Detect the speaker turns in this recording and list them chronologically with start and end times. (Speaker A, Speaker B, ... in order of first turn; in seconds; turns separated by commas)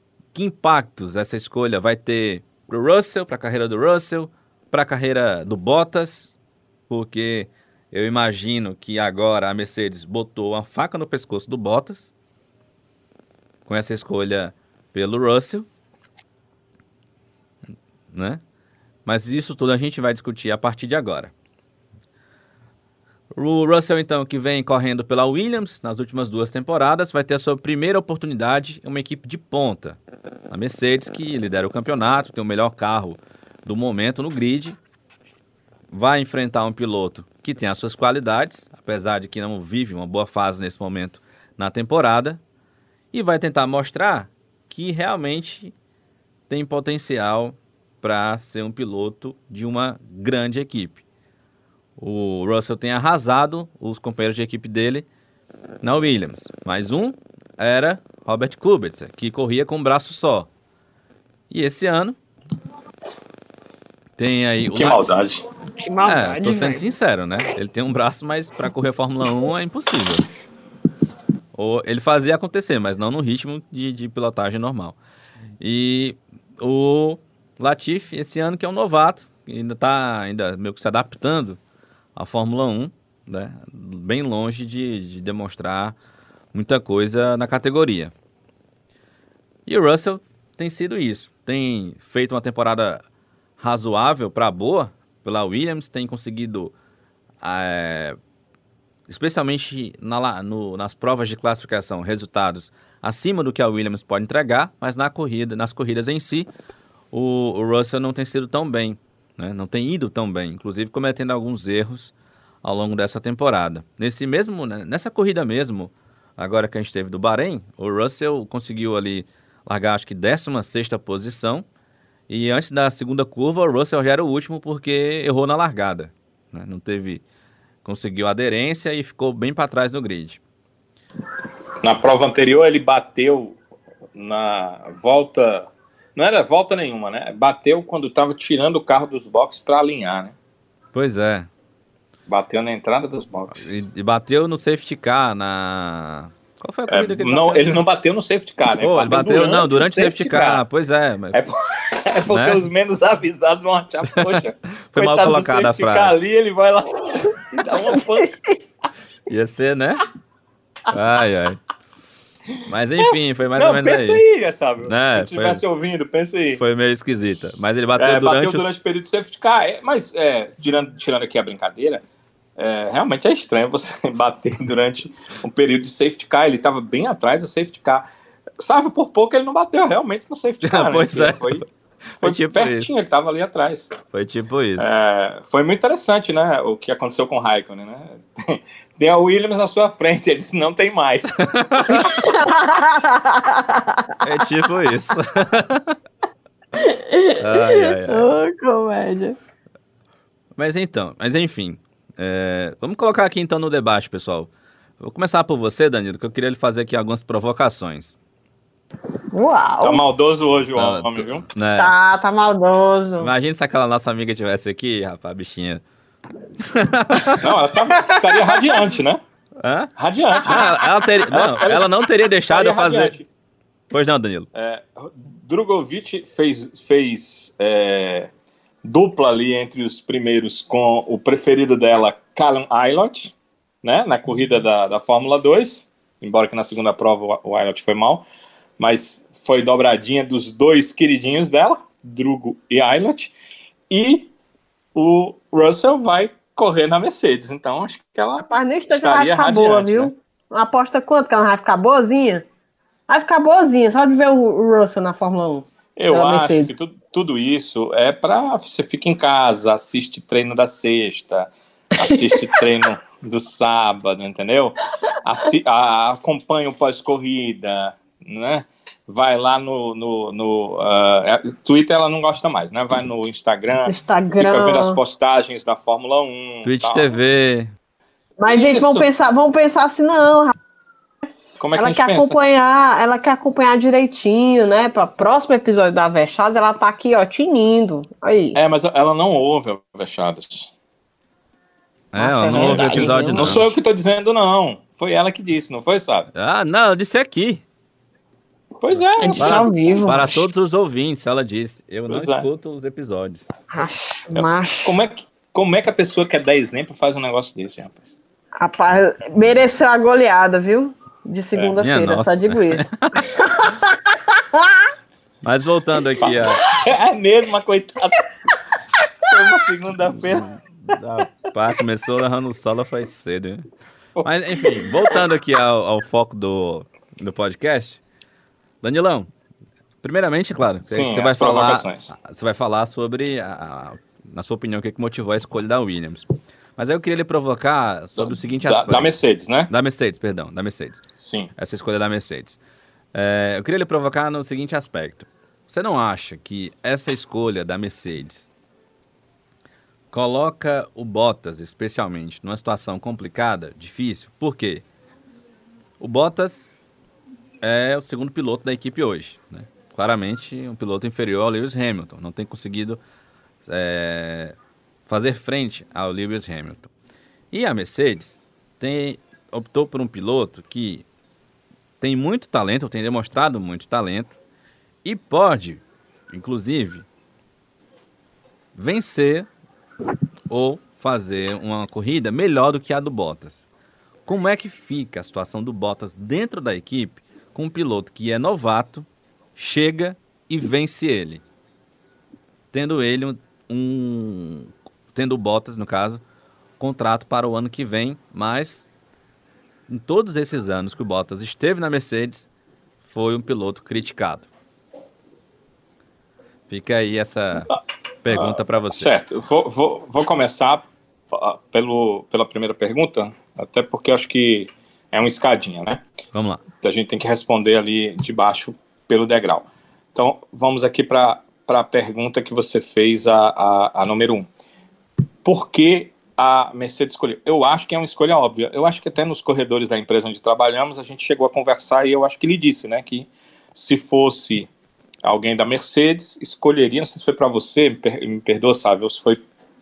Speaker A: 0.3-6.3, Speaker A: 6.9-12.1, Speaker A: 13.7-15.7, Speaker A: 18.1-18.4, Speaker A: 19.1-21.3, Speaker A: 23.3-30.0, Speaker A: 30.5-34.8, Speaker A: 35.9-42.4, Speaker A: 43.1-45.7, Speaker A: 46.5-51.0, Speaker A: 52.0-55.1, Speaker A: 55.8-60.5, Speaker A: 61.5-62.2, Speaker A: 64.2-65.0, Speaker B: 64.7-65.5, Speaker C: 65.8-66.9, Speaker A: 66.0-70.2, Speaker A: 71.5-75.0, Speaker A: 75.6-81.6, Speaker A: 82.2-86.0, Speaker A: 86.5-88.1, Speaker A: 89.7-93.0, Speaker A: 93.6-96.7, Speaker A: 97.4-98.2, Speaker A: 99.1-106.5, Speaker A: 107.1-121.7, Speaker A: 122.3-127.2, Speaker A: 127.8-130.4, Speaker B: 131.8-133.6, Speaker B: 134.2-140.3, Speaker A: 140.9-141.5, Speaker B: 142.3-143.8, Speaker A: 143.6-147.8, Speaker B: 146.9-150.6, Speaker A: 148.8-151.4, Speaker B: 151.3-158.4, Speaker A: 152.3-152.6, Speaker A: 154.1-156.2, Speaker C: 157.7-158.4, Speaker A: 159.3-160.0, Speaker A: 160.9-161.6, Speaker A: 162.7-164.2, Speaker B: 163.1-166.6, Speaker A: 164.8-165.6, Speaker A: 166.6-168.7, Speaker B: 168.0-172.0, Speaker B: 172.6-178.1, Speaker B: 178.6-181.6, Speaker A: 180.6-182.9, Speaker B: 182.2-184.0, Speaker A: 184.1-184.9, Speaker B: 184.8-192.1, Speaker A: 191.4-192.3, Speaker C: 191.9-194.2, Speaker A: 194.2-196.0, Speaker C: 196.8-199.4, Speaker A: 197.4-198.3, Speaker A: 200.6-208.2, Speaker C: 209.3-210.0, Speaker B: 209.8-211.5, Speaker A: 210.8-211.9, Speaker C: 211.8-213.3, Speaker A: 213.2-215.8, Speaker A: 216.6-217.5, Speaker B: 217.4-219.2, Speaker C: 218.0-218.8, Speaker A: 219.6-223.2, Speaker B: 220.0-223.3, Speaker C: 220.6-220.8, Speaker A: 223.9-224.5, Speaker B: 224.5-228.3, Speaker B: 228.8-238.3, Speaker B: 238.8-243.3, Speaker B: 243.9-244.3, Speaker B: 244.9-250.1, Speaker C: 248.4-252.4, Speaker C: 253.1-256.7, Speaker B: 256.0-277.1, Speaker C: 262.0-262.6, Speaker C: 273.9-275.0, Speaker A: 276.6-277.7, Speaker C: 278.4-280.5, Speaker B: 278.5-279.1, Speaker B: 281.6-282.4, Speaker C: 281.8-288.6, Speaker B: 288.6-290.7, Speaker A: 292.1-293.8, Speaker C: 292.2-293.7, Speaker B: 292.5-296.3, Speaker A: 296.3-297.6, Speaker B: 298.8-299.7, Speaker A: 299.0-303.5, Speaker C: 299.2-300.5, Speaker B: 302.1-302.5, Speaker C: 303.7-305.0, Speaker B: 304.4-308.2, Speaker C: 308.6-314.8, Speaker A: 311.8-313.3, Speaker A: 315.4-316.6, Speaker B: 316.2-318.3, Speaker B: 319.2-320.6, Speaker A: 320.1-323.6, Speaker B: 324.2-325.2, Speaker A: 324.2-328.0, Speaker A: 328.8-329.3, Speaker A: 330.0-336.3, Speaker B: 330.9-332.1, Speaker A: 336.8-339.1, Speaker B: 338.2-339.7, Speaker A: 339.7-341.0, Speaker B: 341.2-341.5, Speaker A: 341.6-342.6, Speaker A: 343.1-348.5, Speaker A: 350.1-354.8, Speaker A: 356.0-356.7, Speaker A: 357.6-363.0, Speaker A: 363.6-366.9, Speaker A: 367.5-371.1, Speaker A: 372.0-374.4, Speaker A: 375.0-377.1, Speaker A: 378.8-379.5, Speaker A: 380.5-383.7, Speaker A: 384.3-391.4, Speaker A: 392.7-396.2, Speaker A: 396.8-398.9, Speaker A: 399.9-402.5, Speaker A: 403.0-404.5, Speaker A: 406.7-407.7, Speaker A: 408.2-409.1, Speaker B: 408.3-416.0, Speaker A: 416.3-416.6, Speaker B: 416.8-424.5, Speaker B: 425.4-434.7, Speaker B: 435.2-439.4